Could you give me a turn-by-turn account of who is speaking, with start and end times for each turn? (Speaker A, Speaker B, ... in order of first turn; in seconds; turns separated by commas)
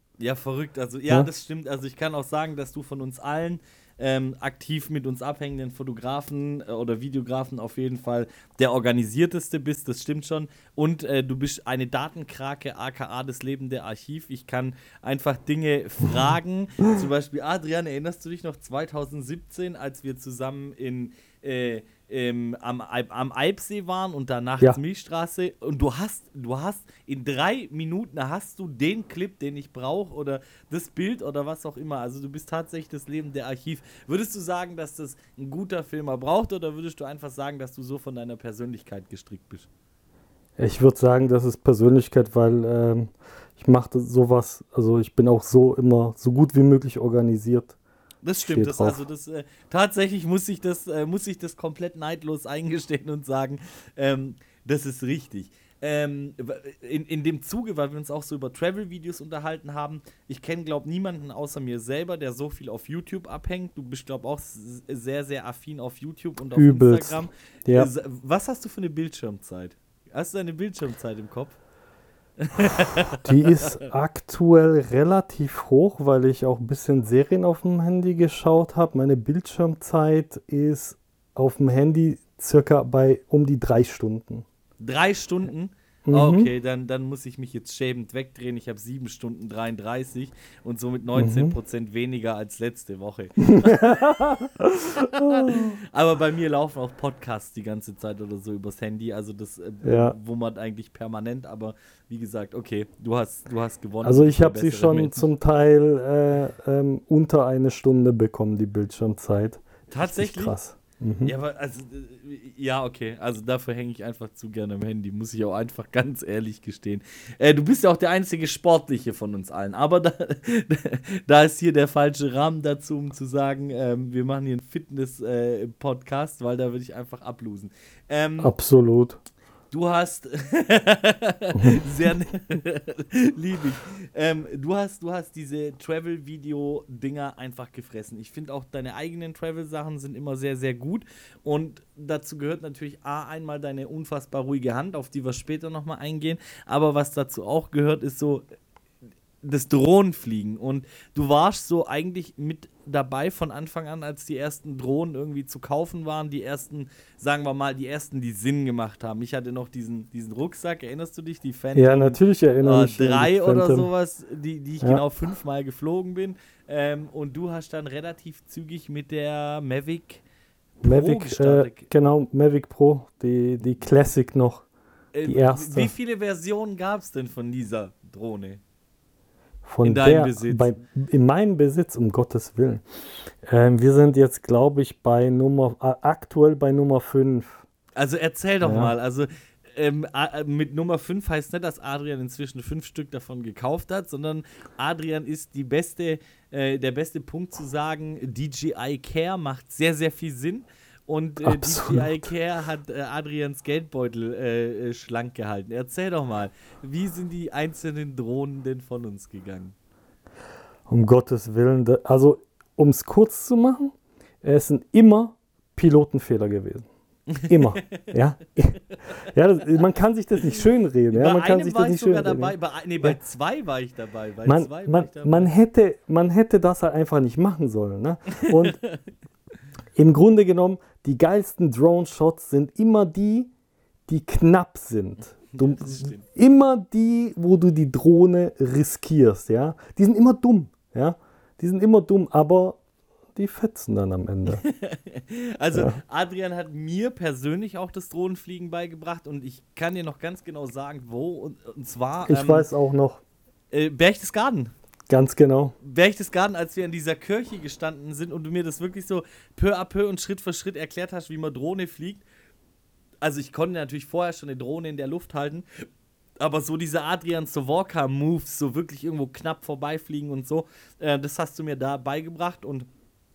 Speaker A: 0.2-39.7, Speaker B: 40.6-47.8, Speaker A: 48.2-71.6, Speaker B: 48.4-49.0, Speaker B: 66.5-67.9, Speaker A: 72.4-73.8, Speaker B: 73.2-84.5, Speaker A: 84.8-94.2, Speaker B: 86.1-86.5, Speaker B: 91.2-91.5, Speaker B: 93.4-95.8, Speaker A: 95.2-105.2, Speaker B: 99.8-100.2, Speaker B: 104.0-111.3, Speaker A: 109.9-110.5, Speaker A: 111.2-128.5, Speaker B: 128.4-129.2, Speaker A: 129.7-148.4, Speaker A: 149.4-170.2, Speaker B: 161.8-163.9, Speaker B: 170.8-174.6, Speaker A: 170.8-171.9, Speaker A: 175.1-178.6, Speaker B: 175.2-175.9, Speaker B: 179.6-182.8, Speaker A: 179.8-180.8, Speaker B: 183.4-187.6, Speaker A: 188.0-209.7, Speaker B: 188.6-188.9, Speaker B: 201.4-202.3, Speaker B: 210.9-216.9, Speaker A: 217.3-218.1, Speaker B: 217.5-223.2, Speaker A: 221.1-225.5, Speaker B: 224.4-228.8, Speaker A: 228.4-229.0, Speaker B: 230.0-233.5, Speaker B: 234.1-242.8, Speaker A: 235.5-236.2, Speaker B: 243.3-244.6, Speaker A: 244.5-252.7, Speaker B: 245.7-246.0, Speaker B: 252.3-253.2, Speaker A: 253.7-254.7, Speaker B: 255.1-255.8, Speaker A: 255.8-262.2, Speaker A: 263.2-265.7, Speaker A: 266.4-272.9